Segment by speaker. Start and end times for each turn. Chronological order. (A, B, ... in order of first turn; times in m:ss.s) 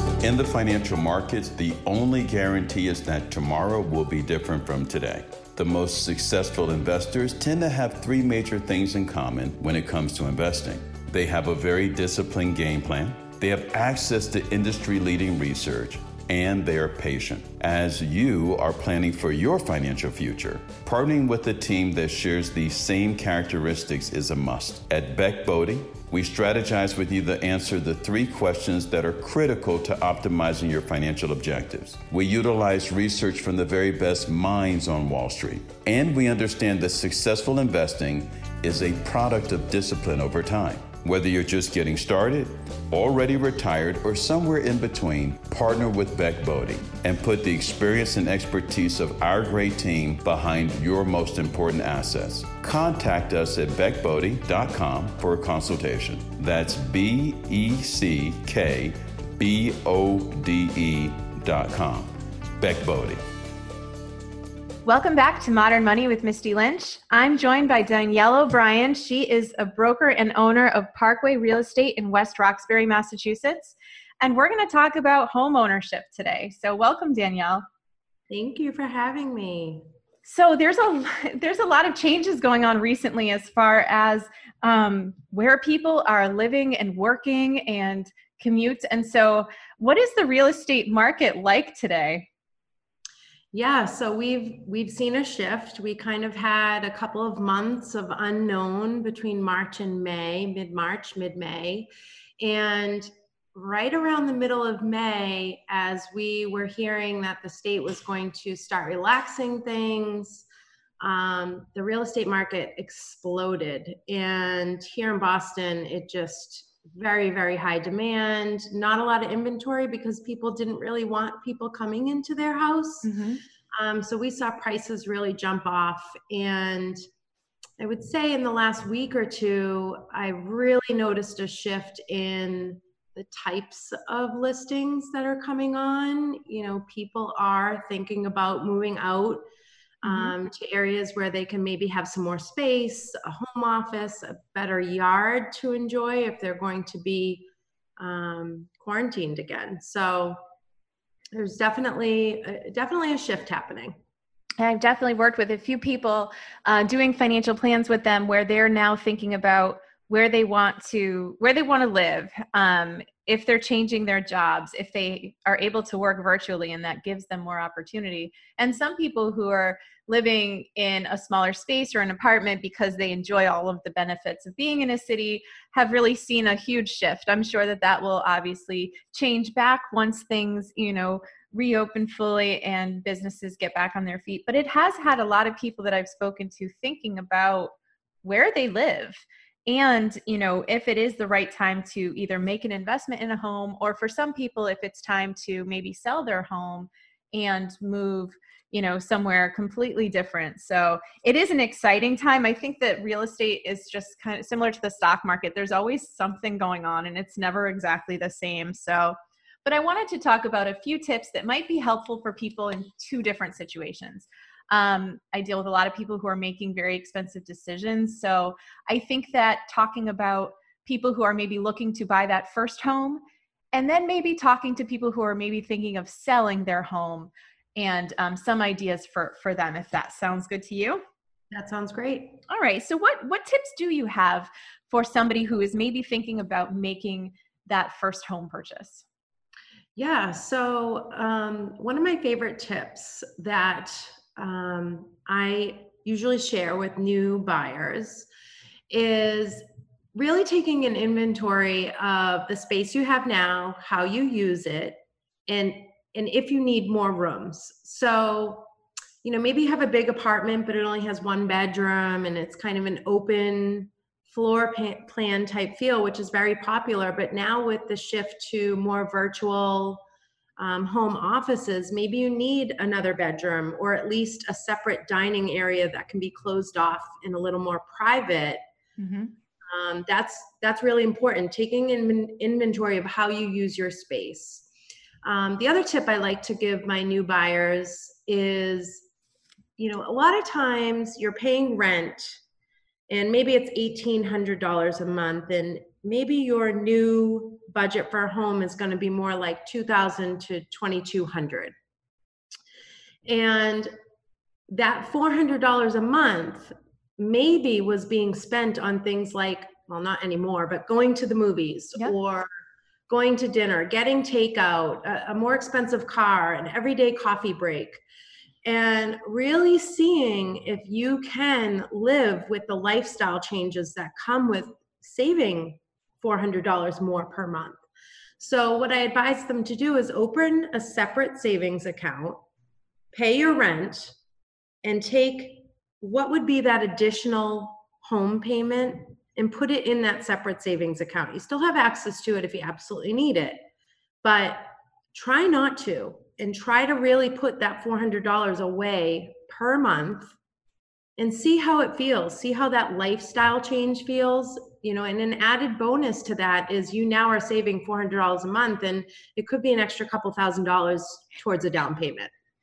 0:00.2-1:03.2 A
1:04.8-1:17.6 B
1:18.3-1:19.8 C
1:20.2-1:32.3 B
1:33.5-1:41.9 C
1:42.4-1:50.4 C
1:51.0-2:03.1 C
2:03.0-2:03.4 B
2:03.7-2:07.0 C
2:07.8-2:19.4 C
2:20.0-2:30.4 C
2:20.0-2:20.3 B
2:31.3-2:34.0 C
2:34.6-3:43.2 B
3:43.7-3:51.0 B
3:51.5-3:52.4 C
3:52.5-3:59.0 B
4:00.0-4:08.3 C
4:08.9-4:18.7 C
4:19.2-4:30.0 C
4:30.6-4:38.6 C
4:39.0-4:39.3 B
4:39.7-4:44.7 C
4:45.2-4:49.1 C
4:49.8-4:52.4 C
4:53.1-5:01.7 C
5:03.3-5:03.9 C
5:04.7-5:12.5 C
5:13.1-5:18.0 C
5:18.6-5:27.8 C
5:28.4-5:32.4 C
5:33.1-5:34.1 C
5:34.8-5:43.6 C
5:44.2-5:50.4 C
5:51.2-6:02.3 C